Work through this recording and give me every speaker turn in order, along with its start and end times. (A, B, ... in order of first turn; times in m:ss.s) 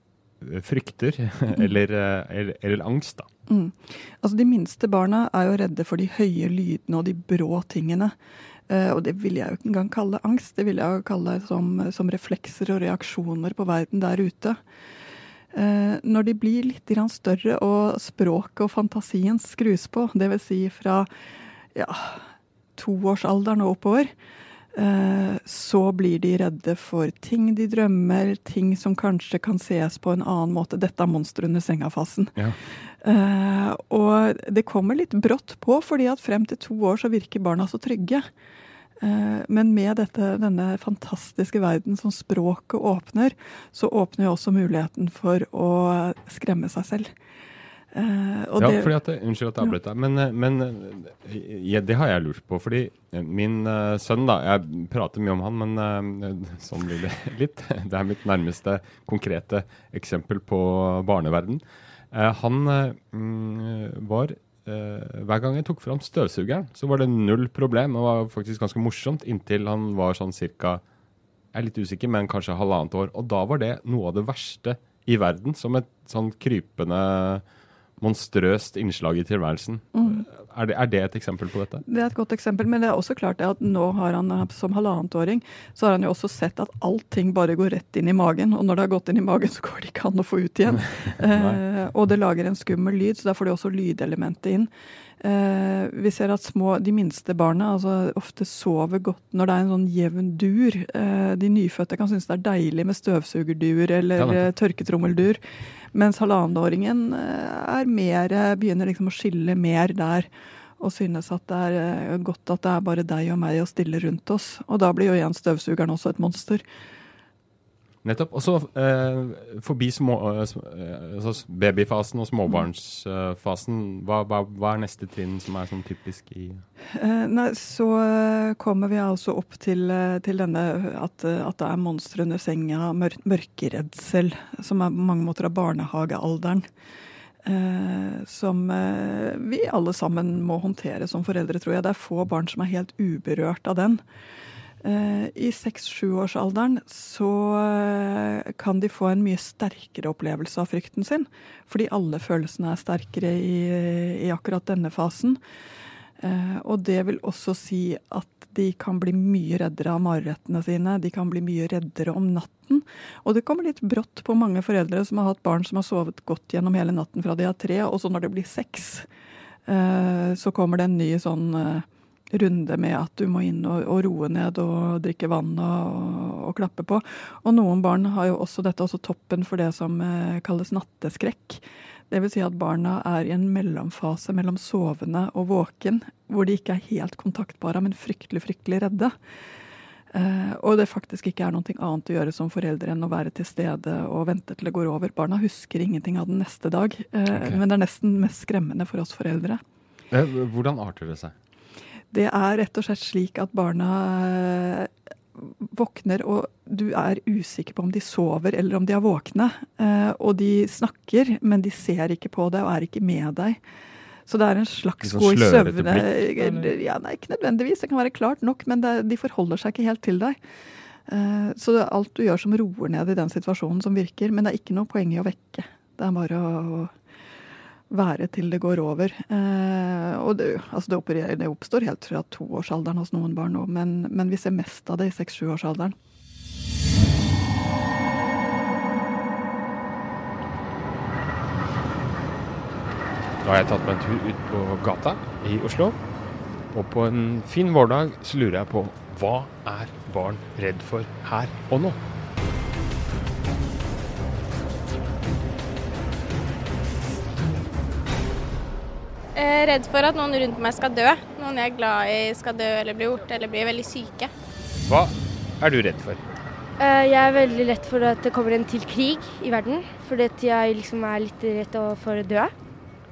0:00.4-0:03.3 A
0:03.5-0:08.1 B
0:08.7-0:14.6 B
0:15.5-0:21.1 B
0:21.7-0:24.1 B
0:24.7-0:32.4 B
0:33.0-0:38.2 B
0:39.0-0:47.1 B
0:47.9-0:48.9 B
0:48.6-1:10.8 A
1:11.5-1:17.4 A
1:18.0-1:21.8 A
1:19.9-1:20.2 B
1:21.8-1:45.4 B
1:30.7-1:31.6 A
1:44.2-1:44.5 A
1:45.9-1:56.6 B
1:58.0-2:06.6 A
2:06.9-2:16.6 B
2:17.4-2:24.0 B
2:24.8-2:35.4 B
2:36.2-2:49.1 B
2:49.7-3:09.1 B
3:10.1-3:19.6 B
3:17.3-3:17.6 A
3:20.1-3:21.3 A
3:22.1-3:33.6 B
3:34.3-3:40.4 B
3:35.0-3:36.7 A
3:41.1-3:46.9 B
3:47.9-3:56.0 B
4:03.4-4:06.0 A
4:06.7-4:12.0 A
4:19.3-4:24.3 C
4:24.8-4:26.2 A
4:26.8-4:32.5 D